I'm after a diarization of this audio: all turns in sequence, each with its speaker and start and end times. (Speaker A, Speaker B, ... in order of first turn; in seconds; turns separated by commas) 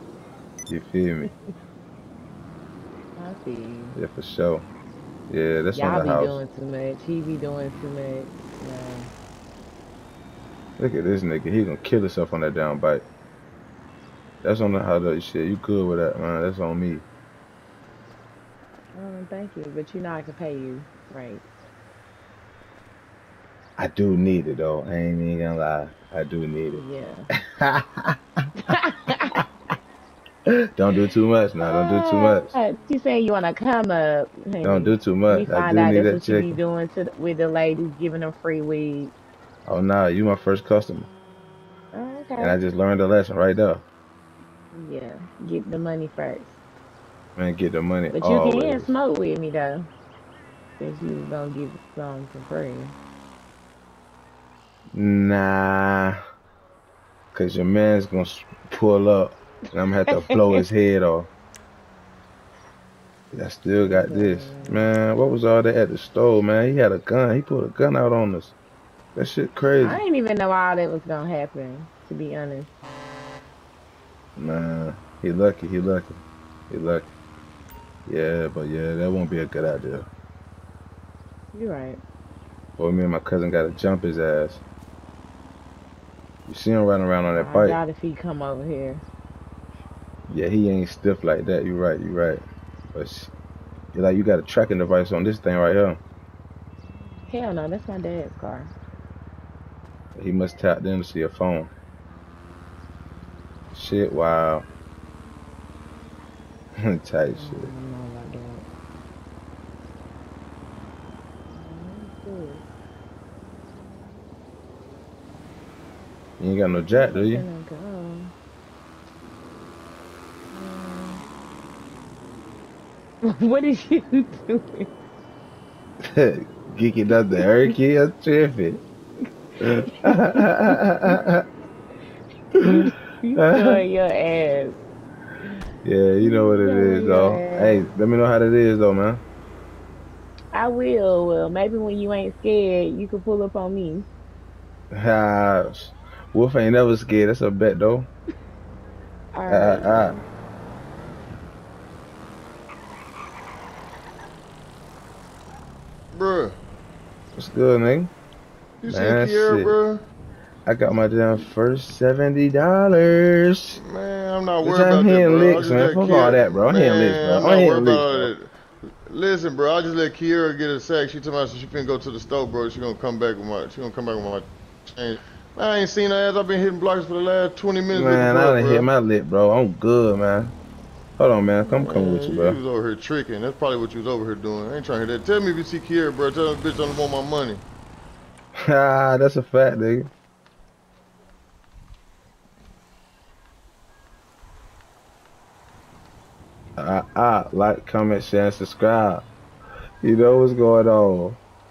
Speaker A: 0.7-1.3, Speaker B: 3.2-4.0, Speaker A: 4.0-4.7, Speaker A: 5.3-6.4, Speaker B: 5.8-9.1, Speaker A: 10.8-13.0, Speaker A: 14.4-17.1, Speaker B: 18.9-21.4, Speaker A: 23.8-26.8, Speaker B: 26.8-27.3, Speaker A: 27.5-28.2, Speaker B: 28.7-29.4, Speaker A: 30.8-32.5, Speaker B: 31.6-39.1, Speaker A: 34.6-36.6, Speaker A: 39.7-41.1, Speaker B: 41.9-42.6, Speaker A: 42.4-43.8, Speaker B: 44.7-46.6, Speaker A: 47.4-48.9, Speaker B: 48.1-49.9, Speaker B: 50.8-53.0, Speaker A: 55.0-56.2, Speaker A: 57.3-61.3, Speaker A: 63.3-68.5, Speaker B: 63.8-64.8, Speaker A: 69.2-70.0, Speaker B: 69.8-72.7, Speaker A: 74.4-77.1, Speaker A: 78.1-80.1, Speaker B: 81.5-82.0, Speaker A: 82.8-84.6, Speaker A: 86.5-87.8, Speaker B: 87.3-89.0, Speaker A: 90.3-92.4, Speaker A: 92.9-93.3, Speaker A: 93.9-96.0, Speaker B: 97.3-98.7, Speaker A: 100.2-101.7, Speaker A: 103.7-104.7, Speaker A: 106.8-107.7, Speaker B: 107.3-108.7, Speaker B: 111.5-112.6, Speaker A: 116.4-117.5, Speaker B: 116.9-118.3, Speaker B: 120.5-121.2, Speaker B: 123.3-124.9, Speaker A: 126.0-128.8, Speaker B: 127.3-127.7, Speaker A: 129.6-131.5, Speaker B: 130.2-130.8, Speaker B: 132.6-134.8, Speaker A: 133.4-133.8, Speaker A: 135.8-139.2, Speaker B: 136.2-137.9, Speaker B: 140.5-144.1, Speaker A: 144.9-148.1, Speaker B: 149.3-150.2, Speaker A: 149.5-150.1, Speaker C: 156.1-156.6, Speaker A: 157.4-158.1, Speaker C: 158.8-160.1, Speaker A: 158.9-159.7, Speaker A: 160.7-163.8, Speaker C: 163.8-178.9, Speaker A: 164.6-168.3, Speaker A: 177.9-180.6, Speaker A: 181.2-182.6, Speaker C: 181.7-187.6, Speaker A: 188.6-190.1, Speaker A: 196.8-199.2, Speaker A: 200.0-201.4